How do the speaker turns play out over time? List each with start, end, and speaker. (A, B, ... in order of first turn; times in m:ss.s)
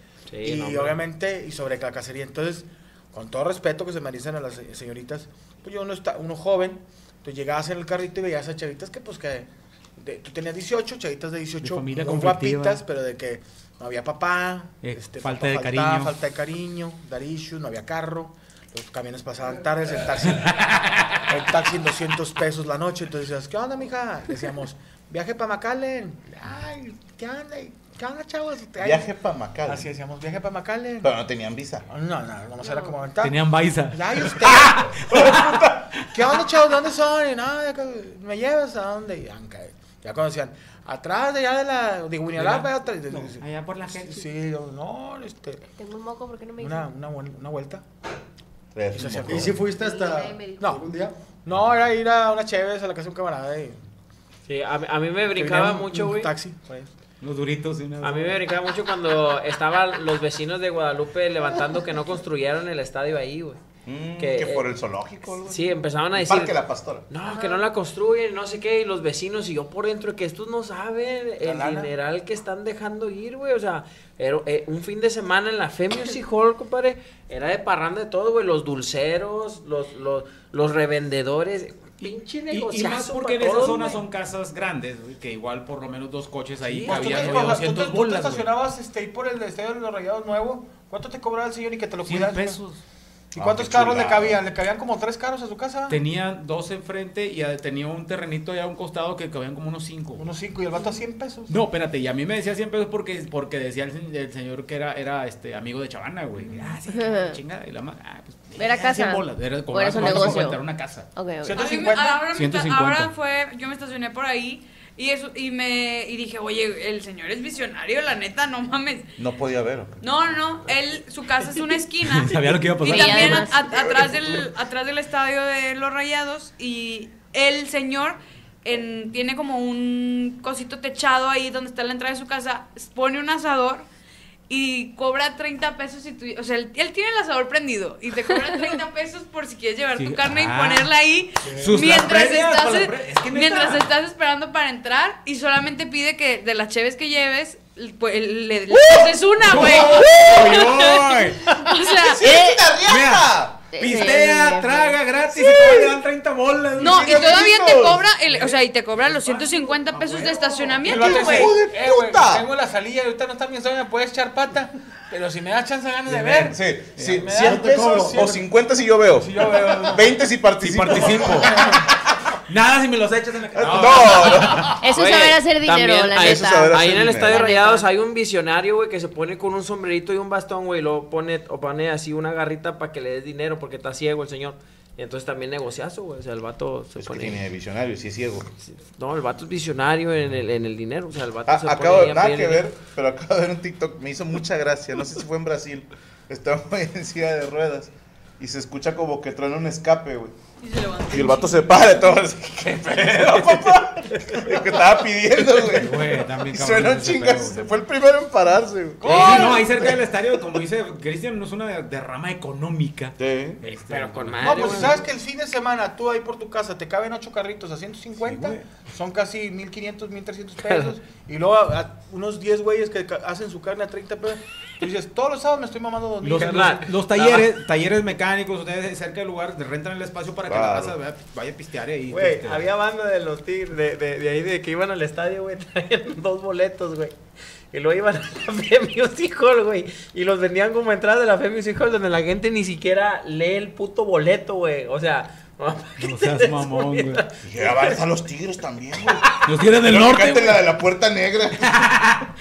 0:00.3-0:01.0 A
0:00.4-0:20.7 B
0:11.6-0:12.8 C
0:14.8-0:16.1 C
0:20.4-0:21.2 C
0:21.3-0:29.1 B
0:28.8-0:29.9 D
0:29.6-0:31.1 B
0:31.0-0:31.8 D
0:31.9-0:45.6 B
0:32.6-0:33.0 E
0:33.2-0:36.2 C
0:42.3-0:44.2 C
0:45.8-0:46.9 E
0:46.6-0:47.8 B
0:48.7-0:49.6 D
0:48.9-0:49.6 B
0:49.3-0:51.1 F
0:49.6-0:50.8 E
0:50.6-0:50.8 B
0:51.4-0:53.8 B
0:54.5-0:56.3 A
0:55.3-0:56.9 B
0:57.2-0:58.4 C
0:58.0-1:03.6 A
1:03.8-1:07.0 D
1:04.2-1:04.7 A
1:05.4-1:06.6 A
1:07.1-1:24.0 A
1:07.3-1:07.6 E
1:11.5-1:11.9 B
1:22.0-1:28.5 C
1:26.6-1:27.5 A
1:26.8-1:32.6 B
1:32.0-1:32.8 C
1:33.3-1:36.0 B
1:33.4-1:34.4 D
1:35.9-1:40.3 C
1:40.2-1:41.6 B
1:41.5-1:51.1 C
1:46.9-1:47.4 E
1:48.6-1:51.8 E
1:50.0-1:50.3 B
1:51.4-1:52.3 B
1:51.6-1:59.1 G
1:52.3-1:53.1 C
1:59.2-2:00.0 D
2:00.0-2:13.9 G
2:02.0-2:03.5 C
2:02.8-2:04.1 E
2:04.0-2:04.2 D
2:14.5-2:32.6 G
2:20.0-2:20.9 C
2:21.6-2:23.9 C
2:28.7-2:31.5 C
2:29.6-2:30.6 D
2:32.0-2:33.6 D
2:32.8-2:37.4 C
2:33.7-2:35.0 E
2:36.8-2:41.6 G
2:36.8-2:38.0 D
2:39.9-2:40.8 C
2:40.8-2:48.4 B
2:40.9-2:42.4 D
2:46.1-2:47.4 C
2:46.5-2:51.8 D
2:47.4-2:48.3 F
2:49.1-2:50.1 B
2:50.6-2:51.8 C
2:51.4-2:51.8 B
2:52.5-2:54.8 C
2:53.5-2:54.7 D
2:54.8-2:57.9 E
2:54.8-3:07.4 A
2:56.2-2:57.4 D
3:07.0-3:08.5 D
3:08.6-3:12.7 A
3:11.5-3:20.3 D
3:20.6-3:21.7 G
3:21.1-3:30.0 D
3:25.6-3:27.6 C
3:29.0-3:29.9 B
3:29.0-3:35.0 C
3:33.2-3:33.6 D
3:33.9-3:35.0 A
3:34.4-3:46.8 B
3:38.2-3:38.6 C
3:40.7-3:40.9 A
3:46.2-3:52.6 C
3:46.4-3:47.5 A
3:50.5-3:51.0 D
3:52.1-3:57.1 A
3:57.7-4:08.0 A
4:06.0-4:07.2 C
4:07.4-4:11.9 D
4:09.4-4:10.6 C
4:11.7-4:12.2 C